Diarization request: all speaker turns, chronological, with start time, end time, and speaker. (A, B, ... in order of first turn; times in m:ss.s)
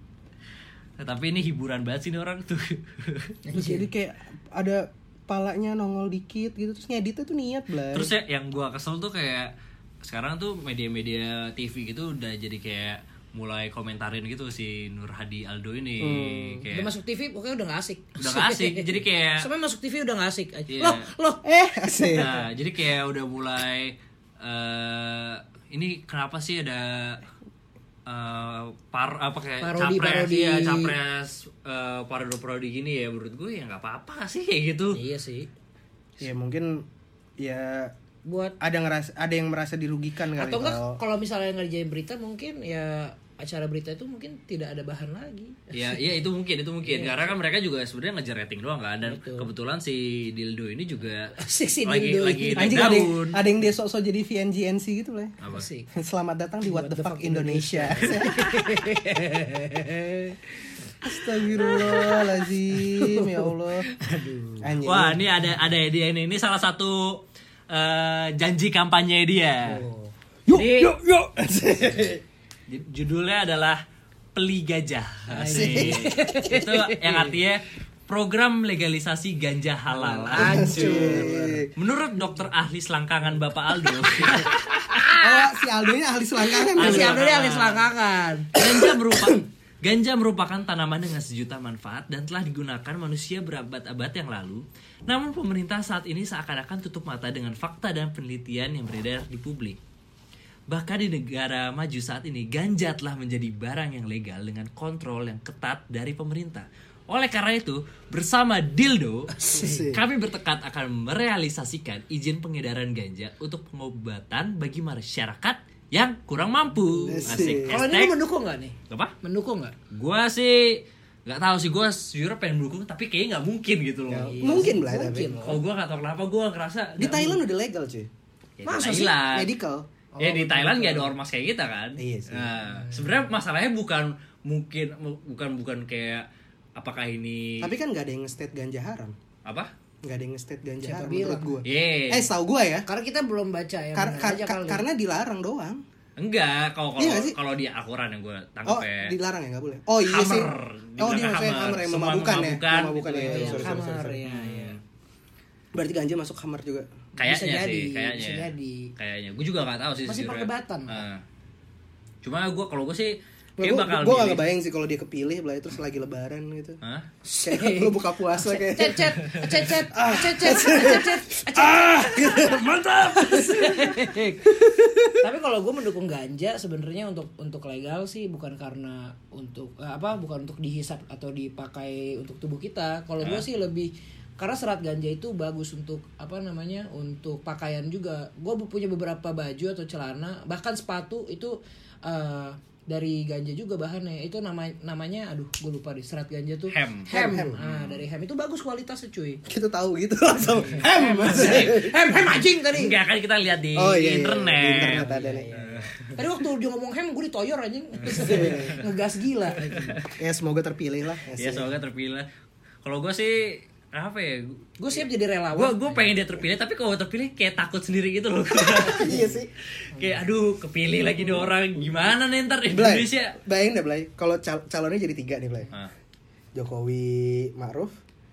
0:01.0-0:03.4 A
0:03.4-0:03.9 B
0:03.5-0:08.1 C
0:07.9-0:09.5 A
0:10.0-0:16.9 A
0:16.0-0:16.7 C
0:16.7-0:21.4 B
0:18.2-0:19.5 A
0:20.7-0:21.1 A
0:21.4-0:22.4 C
0:22.2-0:27.2 A
0:28.0-0:35.0 A
0:29.6-0:30.9 B
0:34.9-0:35.5 B
0:36.2-0:36.8 C
0:37.4-0:37.9 C
0:38.2-0:38.5 B
0:38.6-0:41.0 C
0:40.4-0:46.0 B
0:45.7-0:51.3 A
0:46.8-0:47.2 B
0:49.0-0:49.5 B
0:51.3-0:53.0 B
0:51.8-0:53.4 A
0:52.6-0:55.3 C
0:55.5-0:55.9 B
0:55.9-0:58.4 C
0:56.6-1:00.4 B
1:01.0-1:03.9 C
1:01.6-1:04.7 B
1:04.6-1:05.2 C
1:04.8-1:09.8 A
1:09.6-1:10.1 B
1:10.5-1:12.2 C
1:10.5-1:10.9 A
1:12.7-1:13.8 A
1:14.3-1:24.7 A
1:15.3-1:17.4 B
1:15.5-1:16.0 C
1:19.9-1:21.6 B
1:20.3-1:21.7 C
1:24.9-1:25.5 B
1:25.2-1:27.2 C
1:26.7-1:28.5 B
1:26.8-1:27.9 A
1:28.5-1:39.8 A
1:28.6-1:29.4 C
1:40.7-1:49.3 A
1:49.3-1:49.9 B
1:49.5-1:50.0 C
1:49.9-1:58.2 A
1:56.9-1:59.7 B
1:57.0-1:57.8 C
1:59.9-2:04.5 A
2:04.1-2:05.4 C
2:04.3-2:05.6 B
2:05.4-2:07.4 A
2:07.0-2:08.1 C
2:08.6-2:09.5 A
2:08.6-2:09.2 B
2:09.3-2:11.1 C
2:10.2-2:17.7 A
2:12.0-2:12.5 C
2:17.6-2:19.1 C
2:20.0-2:22.8 C
2:20.8-2:21.5 B
2:21.6-2:22.3 A
2:22.9-2:24.8 B
2:23.9-2:25.8 C
2:26.2-2:29.1 A
2:27.0-2:27.4 C
2:28.6-2:34.2 C
2:30.1-2:34.8 A
2:33.2-2:34.8 B
2:35.7-2:36.9 C
2:37.2-2:38.9 B
2:37.2-2:41.2 A
2:40.1-2:41.0 B
2:42.2-2:44.4 A
2:43.6-2:46.8 C
2:47.2-2:52.5 B
2:47.4-2:55.2 C
2:52.4-2:53.3 A
2:53.1-3:19.4 B
3:03.2-3:03.4 A
3:16.7-3:18.0 A
3:17.1-3:17.6 C
3:19.5-3:22.0 C
3:20.7-3:22.9 B
3:20.8-3:21.9 A
3:22.7-3:26.1 A
3:23.7-3:25.5 C
3:24.9-3:30.0 B
3:28.0-3:28.8 C
3:28.2-3:28.6 A
3:29.7-3:30.0 A
3:30.1-3:31.7 C
3:31.4-3:32.3 A
3:32.8-3:34.7 A
3:34.8-3:36.1 B
3:35.5-3:39.2 A
3:38.6-3:39.5 C
3:39.9-3:40.2 B
3:39.9-3:43.4 A
3:42.7-3:45.7 C
3:46.5-3:47.9 C